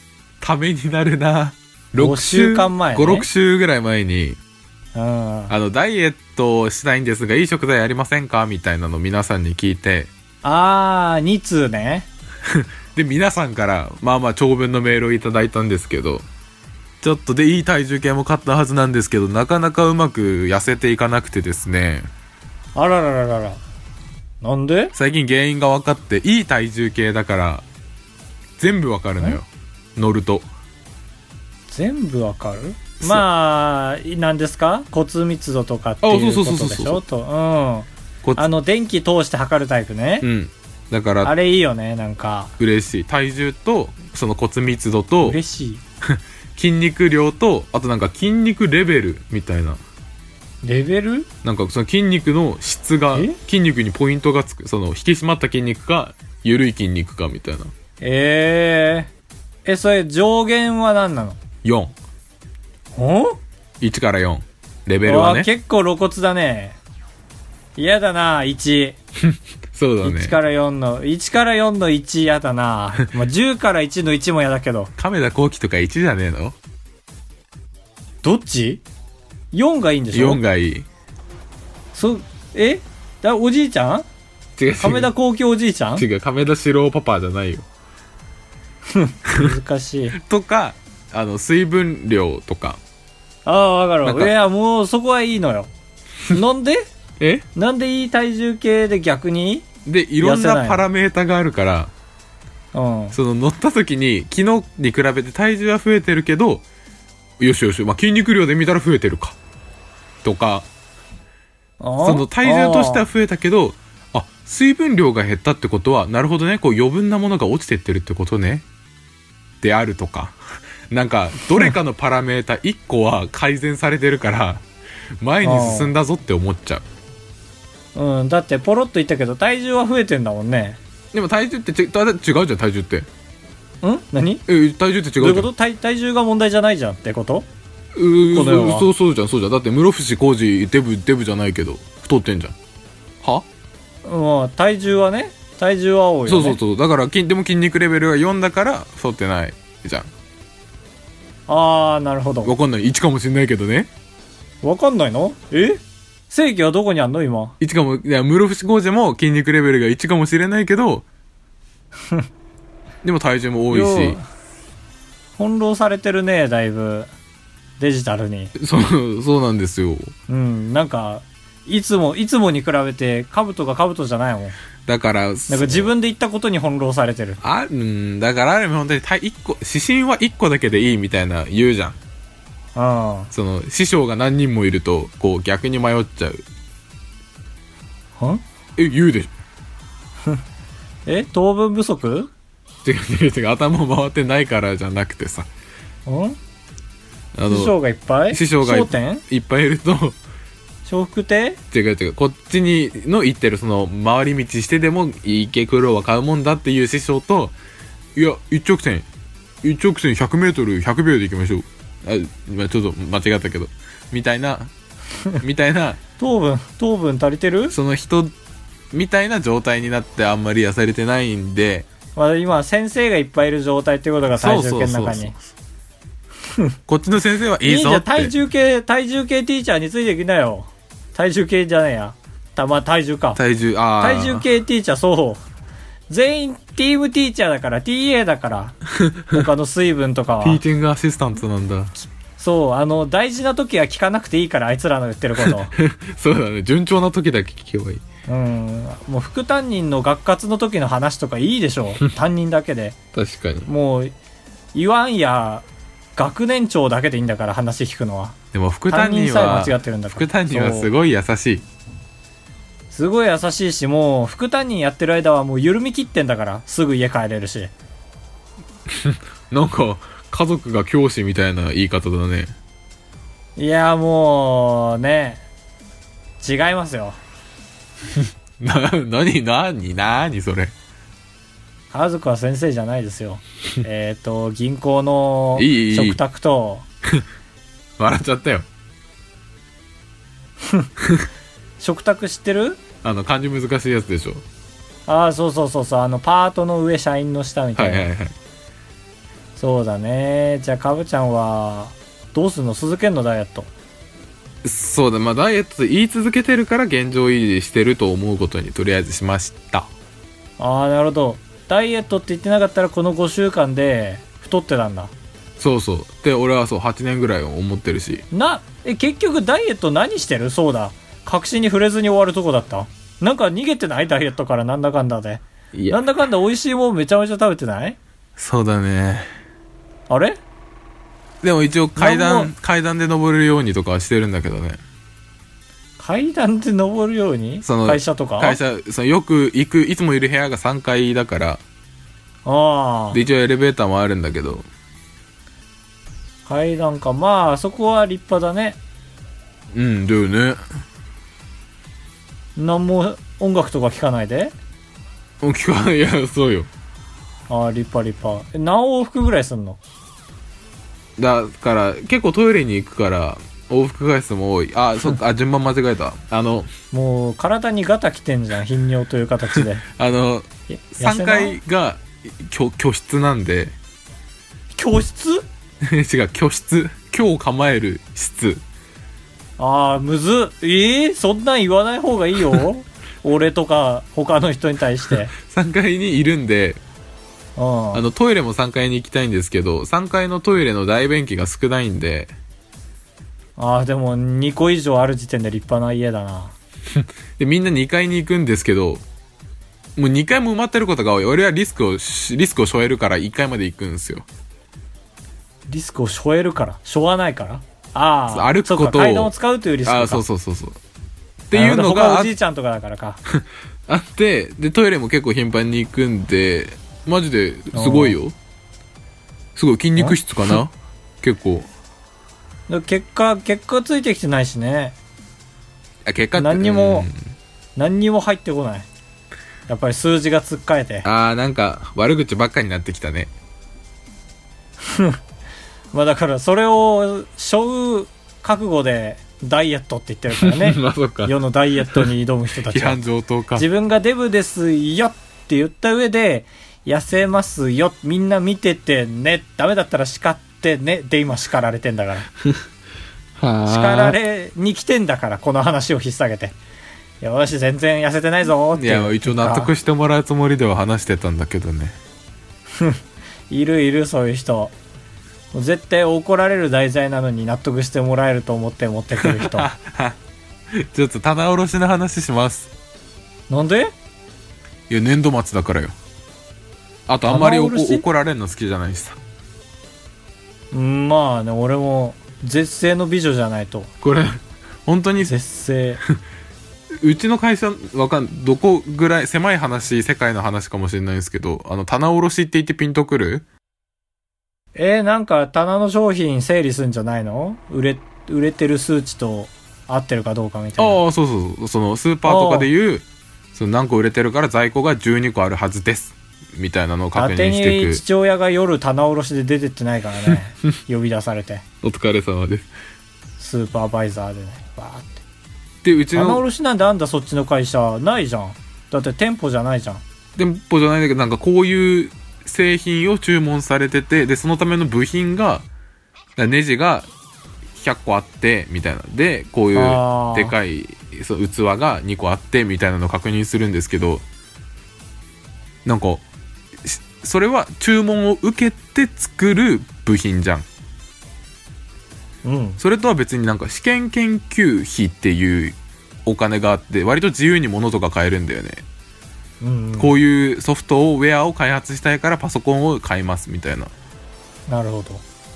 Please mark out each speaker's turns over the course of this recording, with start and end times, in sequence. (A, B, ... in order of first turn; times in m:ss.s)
0:00.4-0:04.4 A
0:02.0-0:03.3 B
0:04.9-0:05.5 B
0:05.5-0:10.1 A
0:10.4-0:12.1 B
0:12.4-0:16.3 A
0:17.0-0:22.1 A
0:22.8-0:23.6 B
0:24.4-0:24.9 B
0:24.9-0:27.6 A
0:28.6-0:30.5 A
0:31.7-0:40.3 B
0:36.0-0:37.0 A
0:40.2-0:41.3 A
0:41.2-0:42.5 B
0:42.6-0:45.4 A
0:45.2-0:45.8 B
0:46.0-0:49.8 A
0:50.6-0:51.3 B
0:51.4-0:57.7 A
0:58.0-0:59.1 B
0:59.6-1:01.4 B
1:01.6-1:01.9 A
1:03.0-1:03.4 B
1:03.8-1:05.5 A
1:05.0-1:06.8 B
1:07.8-1:09.0 B
1:09.2-1:10.4 A
1:10.0-1:14.9 B
1:15.0-1:16.6 A
1:18.2-1:18.8 B
1:19.5-1:20.4 B
1:20.1-1:20.8 A
1:21.9-1:24.0 B
1:24.6-1:25.1 A
1:24.8-1:26.1 B
1:26.0-1:27.7 A
1:28.9-1:30.2 B
1:30.1-1:32.8 A
1:33.4-1:35.7 B
1:34.0-1:34.3 A
1:36.3-1:36.9 B
1:37.2-1:37.4 A
1:37.5-1:39.7 B
1:39.8-1:41.9 A
1:40.2-1:40.8 B
1:42.7-1:43.2 B
1:43.1-1:46.6 A
1:47.4-1:49.4 A
1:50.2-1:50.7 A
1:51.8-1:53.1 B
1:52.0-1:58.6 A
1:59.6-2:00.4 A
2:00.9-2:04.6 A
2:05.2-2:06.8 A
2:05.4-2:05.9 B
2:07.9-2:10.8 B
2:11.1-2:13.1 A
2:13.8-2:14.4 B
2:14.5-2:15.5 A
2:15.2-2:17.5 B
2:17.9-2:22.6 A
2:18.3-2:18.9 B
2:23.2-2:23.5 A
2:24.0-2:26.6 B
2:26.3-2:30.1 A
2:31.5-2:32.5 B
2:32.4-2:33.9 A
2:34.6-2:37.6 B
2:37.6-2:41.1 A
2:43.0-2:44.2 A
2:43.7-2:44.2 B
2:45.4-2:47.1 B
2:47.8-2:48.5 B
2:48.6-2:50.1 A
2:50.3-2:54.6 B
2:54.9-2:55.9 A
2:55.5-2:57.4 B
2:57.4-3:02.0 A
3:02.8-3:03.3 B
3:03.3-3:06.4 A
3:08.8-3:09.3 A
3:11.1-3:12.3 B
3:12.8-3:15.5 A
3:16.1-3:16.4 B
3:17.3-3:17.8 A
3:17.4-3:19.2 B
3:18.3-3:20.2 A
3:20.8-3:21.6 B
3:21.7-3:27.6 A
3:28.2-3:29.1 A
3:29.6-3:34.7 A
3:35.4-3:36.0 A
3:36.2-3:37.8 B
3:37.7-3:38.3 A
3:38.9-3:41.9 A
3:42.2-3:45.3 B
3:44.3-3:45.4 A
3:46.5-3:46.8 B
3:46.9-3:48.3 A
3:47.6-3:53.4 B
3:53.4-3:54.4 A
3:54.0-3:55.4 B
3:56.1-4:00.6 B
3:59.0-3:59.4 A
4:00.4-4:01.9 A
4:02.4-4:05.7 B
4:05.4-4:08.0 A
4:08.3-4:13.0 B
4:13.1-4:13.7 A
4:13.6-4:14.1 B
4:14.7-4:18.4 B
4:18.5-4:21.6 A
4:18.9-4:20.9 B
4:22.9-4:27.7 B
4:28.9-4:32.5 A
4:33.6-4:35.4 B
4:36.4-4:37.2 B
4:38.6-4:40.7 A
4:41.9-4:46.8 B
4:45.6-4:46.2 A
4:48.0-4:48.7 A
4:50.6-4:50.9 B
4:51.8-4:52.8 B
4:53.0-4:54.4 A
4:55.1-4:58.1 B
4:57.8-4:58.3 A
4:59.6-5:03.7 B
5:04.6-5:09.9 A
5:10.6-5:15.1 B
5:15.6-5:18.2 A
5:18.3-5:28.0 B
5:25.7-5:26.0 A
5:28.4-5:29.3 A
5:30.1-5:30.4 B
5:31.4-5:34.8 A
5:32.0-5:32.5 B
5:36.0-5:38.6 B
5:37.6-5:41.6 A
5:42.4-5:43.2 B
5:43.1-5:44.6 A
5:46.4-5:48.8 B
5:49.7-5:50.6 A
5:52.6-5:54.6 B
5:55.4-5:56.7 A
5:57.5-5:59.8 B
6:01.2-6:06.7 A
6:06.9-6:09.8 B
6:09.9-6:13.8 A
6:10.7-6:11.6 B
6:14.7-6:15.4 B
6:15.8-6:18.6 A
6:19.6-6:25.3 B
6:25.3-6:26.8 A
6:27.6-6:28.0 B
6:27.9-6:32.3 A
6:33.6-6:36.5 B
6:36.9-6:39.0 A
6:40.0-6:44.2 A
6:45.7-6:50.2 B
6:48.3-6:49.3 A
6:49.8-6:50.8 A
6:51.5-6:52.3 A
6:51.5-6:53.2 B
6:53.3-6:58.4 A
6:57.7-6:58.2 B
6:59.6-7:01.7 A
7:02.7-7:05.0 B
7:06.0-7:07.2 A
7:06.4-7:07.1 B
7:07.8-7:08.9 B
7:09.7-7:11.1 B
7:11.0-7:13.3 A
7:14.8-7:15.2 B
7:15.9-7:23.0 B
7:20.4-7:21.4 A
7:22.7-7:23.6 A
7:23.5-7:32.3 B
7:33.4-7:34.2 A
7:33.6-7:36.6 B
7:37.2-7:39.7 B
7:38.8-7:42.0 A
7:42.8-7:44.7 B
7:45.5-7:49.7 B
7:49.2-7:50.2 A
7:50.7-7:52.7 A
7:53.5-7:53.9 B
7:54.9-7:56.0 A
7:57.1-7:59.2 A
7:57.3-7:58.0 B
8:00.7-8:03.9 B
8:04.0-8:05.3 A
8:05.2-8:06.0 B
8:07.0-8:13.4 A
8:14.8-8:21.0 B
8:20.8-8:28.0 A
8:22.2-8:22.7 B
8:27.1-8:31.6 B
8:31.8-8:32.7 A
8:33.4-8:35.2 B
8:35.8-8:36.4 A
8:36.1-8:40.0 B
8:40.4-8:45.6 A
8:46.4-8:47.1 A
8:47.8-8:54.2 A
8:49.7-8:50.5 B
8:55.8-8:56.2 A
8:56.8-9:00.6 A
9:02.4-9:02.8 B
9:02.8-9:05.8 A
9:06.2-9:08.8 A
9:09.6-9:10.1 B
9:10.0-9:13.9 A
9:14.7-9:15.2 B